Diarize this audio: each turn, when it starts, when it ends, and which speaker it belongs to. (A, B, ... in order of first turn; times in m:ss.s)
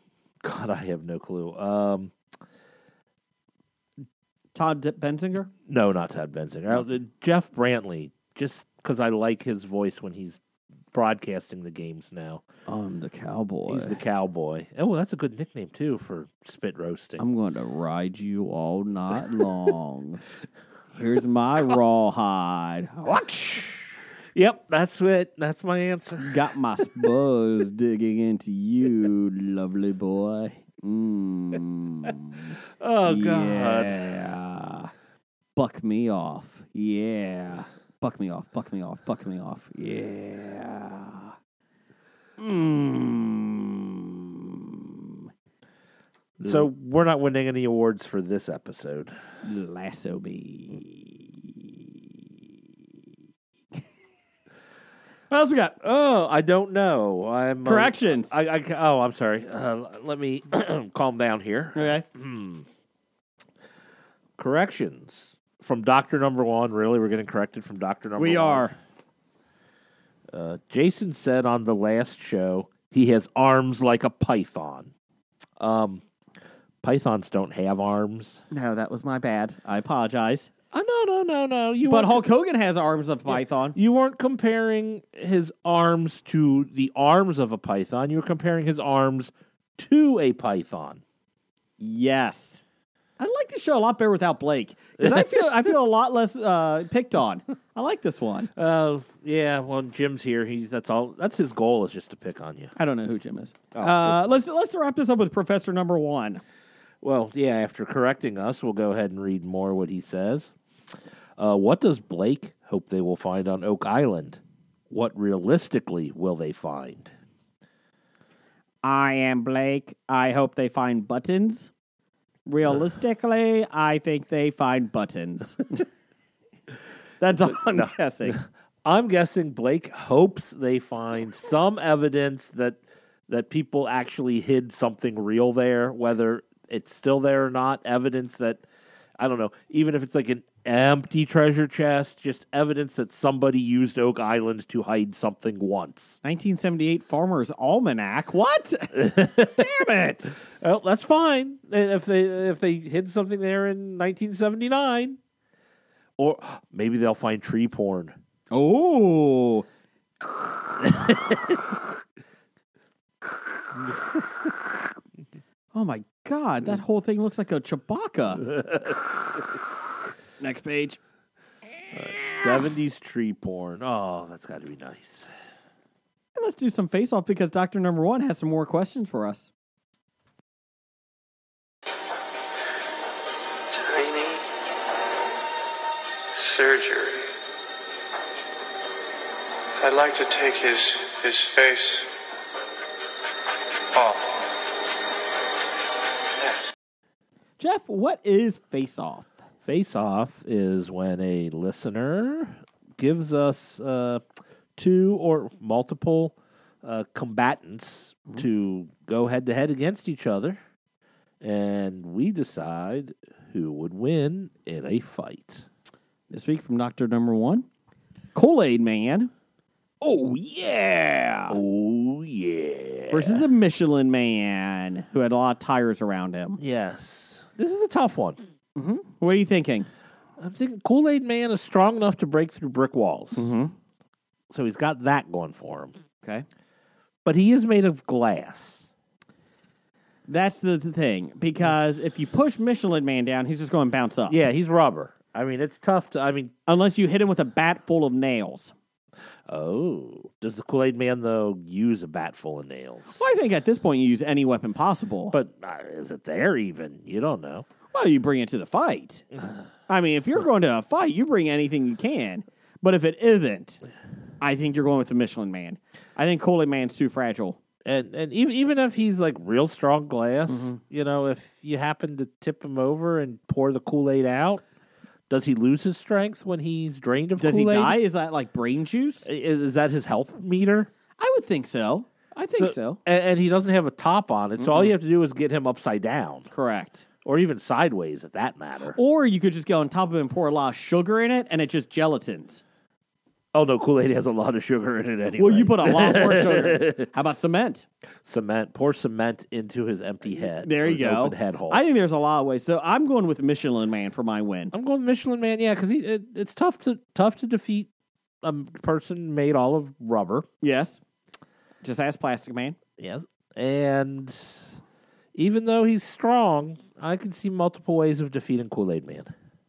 0:00.4-0:02.1 A
0:04.5-0:05.5 B
0:05.7-0:10.4 A
0:10.9-0:12.4 A
0:12.7-0:14.0 B
0:13.7-0:17.2 A
0:17.2-0:20.2 B
0:20.9-0:23.9 B
0:24.3-0:26.4 A
0:26.2-0:34.9 B
0:32.8-0:34.1 A
0:35.6-0:41.3 B
0:42.4-0:45.2 B
0:46.4-0:46.7 B
0:46.4-0:49.1 A
0:49.4-0:51.7 B
0:55.3-0:55.8 B
0:55.8-1:02.6 A
0:57.6-0:58.3 B
1:01.7-1:02.0 B
1:04.4-1:08.7 A
1:08.2-1:08.7 B
1:10.3-1:14.9 A
1:15.6-1:16.0 A
1:16.8-1:18.4 A
1:18.5-1:20.5 B
1:20.7-1:22.3 A
1:21.8-1:23.8 B
1:23.3-1:31.0 A
1:31.8-1:32.6 B
1:33.2-1:38.5 B
1:38.5-1:42.7 A
1:42.8-1:46.4 B
1:43.7-1:44.2 A
1:47.0-1:50.5 A
1:51.4-1:57.1 A
1:58.8-2:01.7 B
2:02.4-2:05.8 B
2:07.2-2:08.4 B
2:07.6-2:18.6 A
2:19.2-2:26.2 A
2:26.2-2:30.3 B
2:28.9-2:29.7 A
2:30.5-2:35.2 A
2:36.2-2:38.2 A
2:38.5-2:39.6 B
2:40.8-2:41.6 A
2:45.7-2:48.5 B
2:48.5-2:49.0 A
2:50.4-2:51.0 B
2:51.9-2:55.3 A
2:56.4-2:59.5 B
3:03.7-3:04.4 C
3:06.3-3:07.2 C
3:09.8-3:12.1 C
3:14.0-3:14.2 C
3:17.6-3:19.3 B
3:19.6-3:24.2 A
3:24.8-3:30.6 A
3:31.4-3:35.6 A
3:36.3-3:37.6 B
3:38.3-3:39.3 B
3:40.0-3:41.6 B
3:41.5-3:43.4 A
3:43.1-3:46.6 B
3:46.6-3:48.4 A
3:48.8-3:49.9 B
3:50.4-3:53.5 A
3:53.4-3:53.7 B
3:54.5-3:56.0 A
3:57.2-3:58.9 A
4:00.3-4:04.4 B
4:04.3-4:06.5 A
4:06.6-4:08.7 B
4:09.5-4:13.2 A
4:13.2-4:15.3 B
4:15.3-4:17.6 A
4:17.9-4:19.2 B
4:19.9-4:23.8 B
4:24.4-4:27.6 B
4:27.8-4:34.6 A
4:30.5-4:30.8 B
4:35.3-4:38.0 A
4:37.4-4:39.2 B
4:39.2-4:40.9 A
4:41.2-4:43.0 B
4:42.6-4:46.5 A
4:44.6-4:44.9 B
4:46.5-4:47.0 B
4:47.2-4:49.0 A
4:48.9-4:52.6 B
4:53.5-4:57.1 A
4:55.4-4:57.8 B
4:58.2-5:01.8 A
5:00.3-5:04.7 B
5:04.7-5:07.9 A
5:08.4-5:10.5 A
5:10.6-5:11.0 B
5:11.8-5:12.8 B
5:13.0-5:14.6 A
5:15.3-5:19.3 A